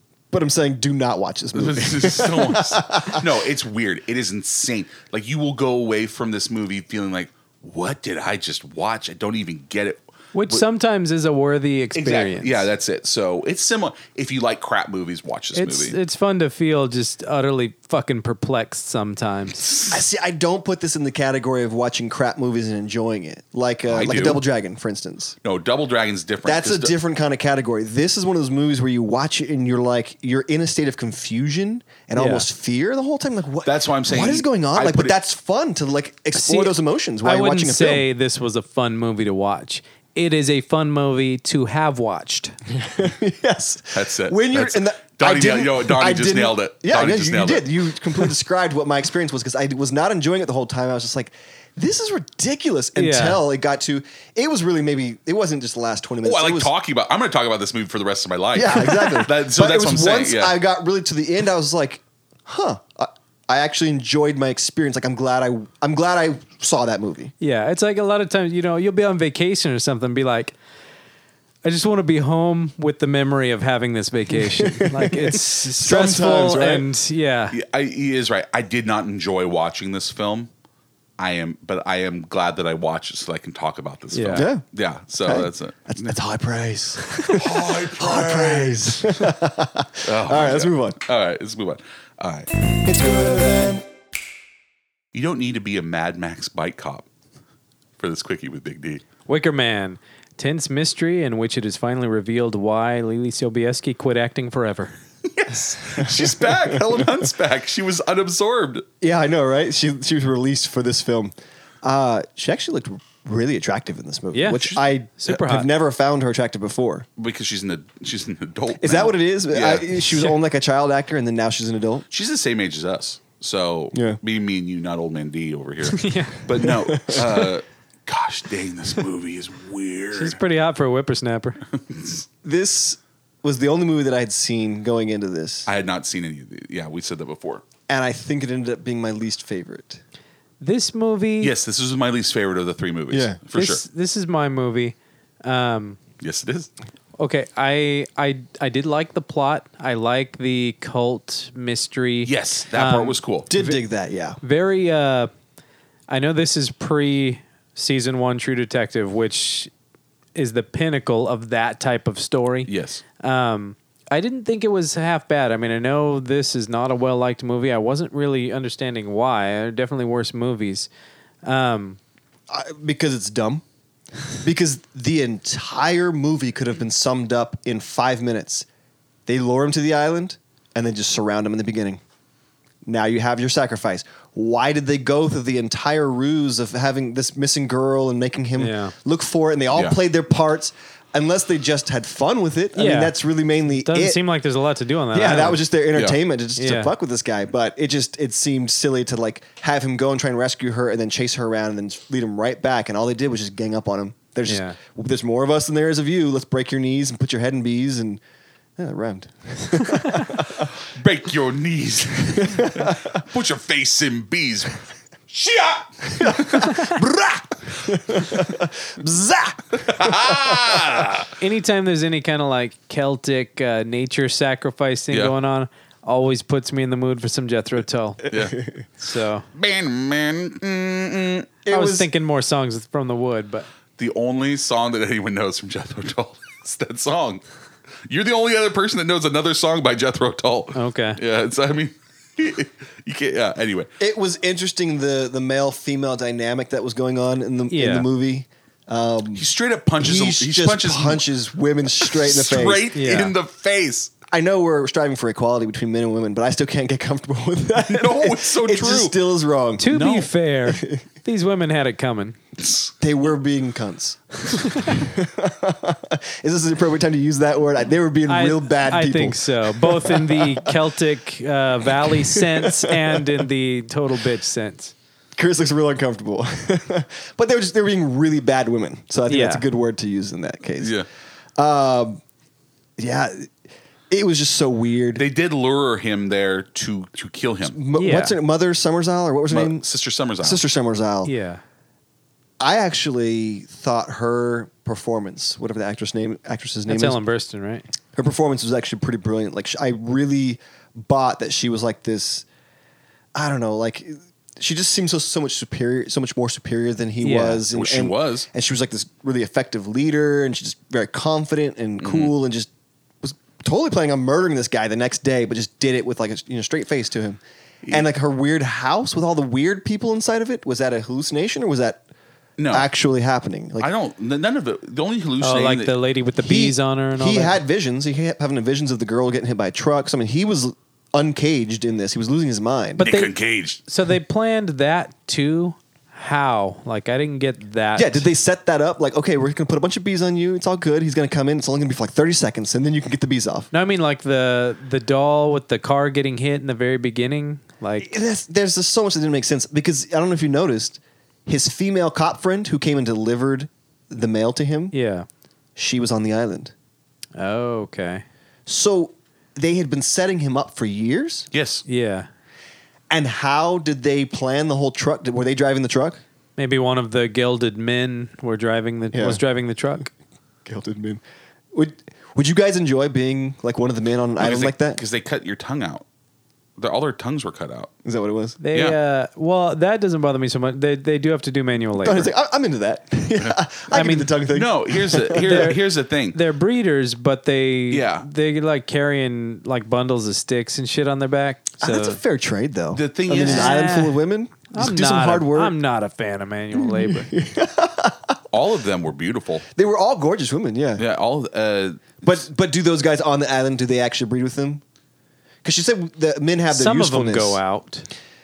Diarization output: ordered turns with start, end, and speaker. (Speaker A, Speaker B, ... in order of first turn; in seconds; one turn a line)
Speaker A: 0.3-3.3
Speaker B: 1.5-10.6
Speaker C: 10.3-12.6
Speaker B: 11.9-16.0
Speaker C: 15.6-19.6
Speaker B: 19.6-19.9
Speaker A: 19.9-25.4
Speaker B: 23.9-24.4
Speaker B: 25.4-26.9
Speaker A: 26.4-38.0
Speaker C: 32.1-32.5
Speaker B: 33.6-35.2
Speaker C: 36.3-42.5
Speaker A: 42.7-56.7
Speaker B: 43.9-48.3
Speaker C: 53.0-53.4
Speaker B: 56.2-60.5
Speaker A: 58.5-67.3
Speaker C: 67.4-70.5
Speaker C: 71.6-77.5
Speaker A: 74.4-76.9
Speaker B: 77.5-80.5
Speaker B: 81.2-86.1
Speaker C: 84.1-84.5
Speaker A: 84.3-84.6
Speaker A: 85.2-91.0
Speaker B: 87.3-89.3
Speaker B: 90.0-92.5
Speaker A: 92.7-93.8
Speaker B: 95.1-97.1
Speaker B: 98.0-99.0
Speaker C: 99.3-104.9
Speaker B: 105.2-108.8
Speaker A: 106.0-107.2
Speaker A: 109.0-117.0
Speaker C: 114.3-115.7
Speaker B: 117.2-120.3
Speaker A: 118.8-122.0
Speaker B: 122.1-130.4
Speaker A: 123.9-124.2
Speaker C: 125.8-126.4
Speaker A: 126.6-127.5
Speaker C: 130.1-131.6
Speaker B: 131.7-132.2
Speaker A: 132.4-135.7
Speaker B: 135.7-137.6
Speaker A: 137.9-140.0
Speaker C: 140.6-141.5
Speaker B: 141.4-143.8
Speaker A: 143.1-143.4
Speaker C: 143.5-146.0
Speaker B: 146.2-146.7
Speaker C: 147.2-153.8
Speaker B: 152.2-153.5
Speaker A: 153.5-154.4
Speaker C: 154.4-155.3
Speaker C: 156.1-159.7
Speaker C: 160.3-170.9
Speaker B: 162.7-163.0
Speaker C: 171.4-172.0
Speaker A: 172.5-173.6
Speaker A: 174.4-178.7
Speaker A: 179.3-182.0
Speaker A: 182.8-194.2
Speaker C: 188.6-188.9
Speaker C: 192.8-193.1
Speaker C: 193.7-195.6
Speaker A: 195.1-208.2
Speaker C: 196.6-196.9
Speaker C: 204.5-204.8
Speaker A: 208.8-210.7
Speaker B: 210.3-216.9
Speaker A: 212.4-213.0
Speaker A: 216.2-221.0
Speaker B: 217.9-218.4
Speaker B: 219.7-221.3
Speaker C: 221.3-228.3
Speaker B: 228.3-228.6
Speaker C: 229.0-229.4
Speaker B: 229.5-231.5
Speaker A: 231.6-232.1
Speaker C: 231.7-233.7
Speaker B: 234.0-237.4
Speaker B: 238.1-243.9
Speaker C: 240.7-241.2
Speaker A: 244.0-249.4
Speaker C: 247.7-248.1
Speaker B: 249.3-251.2
Speaker A: 250.0-252.8
Speaker B: 251.9-254.1
Speaker C: 252.9-253.3
Speaker A: 254.3-259.8
Speaker B: 257.8-259.1
Speaker C: 259.8-262.4
Speaker B: 259.9-260.3
Speaker A: 260.6-261.0
Speaker B: 262.6-262.9
Speaker A: 263.0-270.8
Speaker C: 268.3-274.9
Speaker A: 271.9-273.4
Speaker A: 275.4-280.9
Speaker C: 279.3-279.6
Speaker B: 280.8-281.1
Speaker A: 281.6-282.2
Speaker A: 283.0-283.5
Speaker A: 284.1-285.2
Speaker B: 285.1-287.8
Speaker A: 287.6-289.8
Speaker C: 288.0-288.3
Speaker B: 289.5-290.6
Speaker A: 290.4-291.3
Speaker C: 291.2-291.6
Speaker A: 292.6-297.2
Speaker C: 296.9-297.8
Speaker A: 298.1-302.4
Speaker A: 303.3-312.7
Speaker C: 307.2-307.6
Speaker B: 307.7-308.5
Speaker B: 312.0-312.3
Speaker A: 313.2-322.0
Speaker B: 322.6-322.9
Speaker A: 322.7-323.9
Speaker B: 323.8-325.9
Speaker C: 325.4-327.6
Speaker A: 326.4-333.0
Speaker B: 333.0-333.8
Speaker C: 333.0-333.3
Speaker C: 333.9-338.3
Speaker A: 337.9-343.7
Speaker C: 343.7-348.1
Speaker A: 348.0-354.9
Speaker C: 354.9-355.3
Speaker A: 355.8-356.7
Speaker C: 357.4-358.2
Speaker A: 358.6-361.5
Speaker B: 361.5-361.8
Speaker C: 361.9-362.3
Speaker A: 363.1-366.2
Speaker C: 366.6-370.1
Speaker A: 369.1-369.4
Speaker A: 370.6-371.2
Speaker A: 371.7-375.0
Speaker B: 374.4-376.0
Speaker B: 376.8-377.9
Speaker A: 378.0-378.6
Speaker C: 378.6-382.3
Speaker A: 381.9-385.7
Speaker C: 383.9-384.4
Speaker B: 384.5-386.4
Speaker C: 385.4-385.8
Speaker C: 386.3-392.2
Speaker B: 387.9-388.3
Speaker A: 391.8-395.7
Speaker B: 392.9-393.8
Speaker C: 393.3-397.3
Speaker A: 396.7-398.3
Speaker B: 398.5-399.6
Speaker A: 399.8-401.0
Speaker B: 400.9-402.2
Speaker A: 402.2-404.8
Speaker A: 405.6-407.6
Speaker C: 406.7-408.1